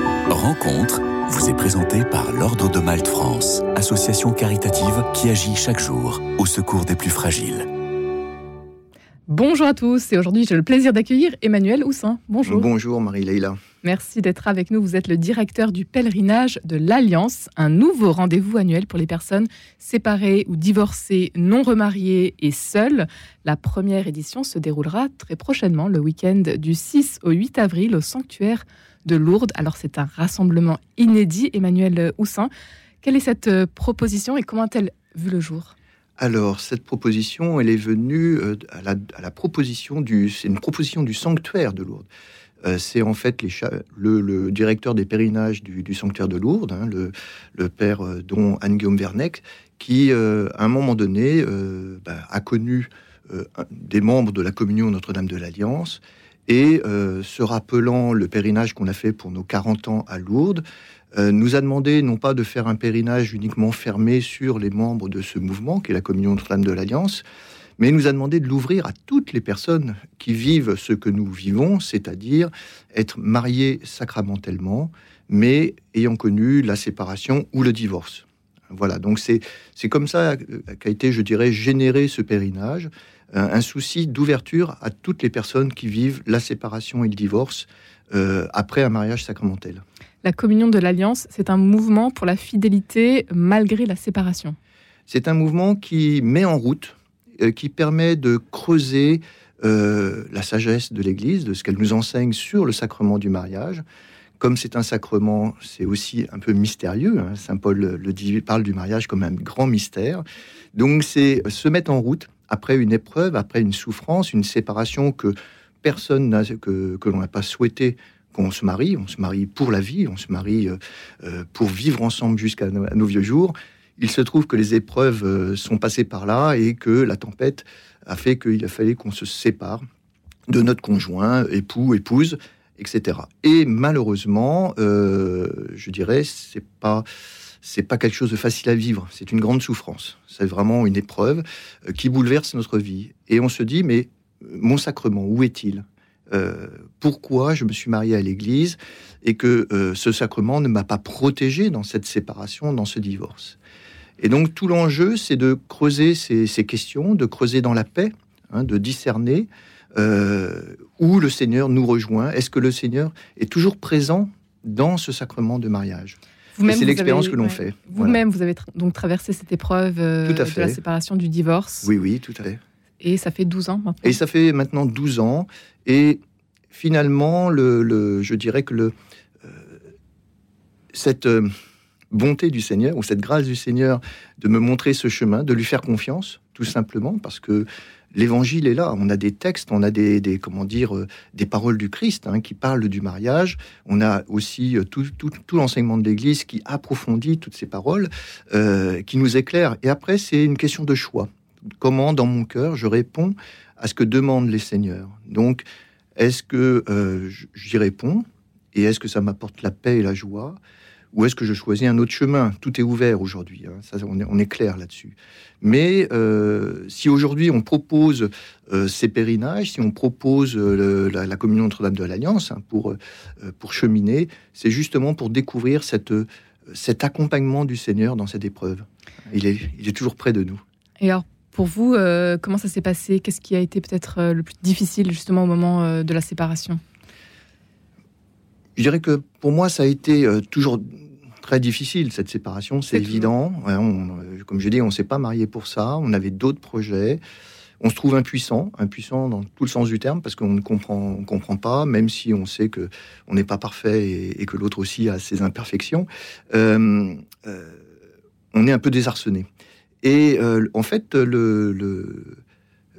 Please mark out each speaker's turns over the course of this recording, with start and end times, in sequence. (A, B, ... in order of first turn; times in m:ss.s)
0:00.3-0:07.7 A
0:09.3-0:12.7 B
0:12.4-0:13.6 C
0:13.8-0:32.5 B
0:33.0-0:35.7 B
0:36.2-0:42.1 C
0:42.6-1:00.6 C
1:01.1-1:07.2 C
1:07.8-1:29.8 C
1:30.2-1:34.6 B
1:35.1-1:43.8 C
1:44.4-1:50.2 C
1:50.7-2:09.8 C
2:10.5-2:17.0 C
2:17.6-2:33.6 C
2:34.2-2:48.2 C
2:46.6-2:51.9 B
2:50.2-2:50.8 C
2:51.8-2:52.6 C
2:53.0-2:54.2 B
2:54.0-2:56.2 C
2:56.7-2:59.8 C
3:00.9-3:01.5 C
3:02.1-3:25.6 C
3:26.2-3:30.6 C
3:31.1-3:50.6 C
3:51.0-3:56.8 B
3:58.8-4:07.2 C
4:02.9-4:03.3 B
4:07.8-4:17.8 C
4:18.5-4:19.5 C
4:20.0-4:22.4 C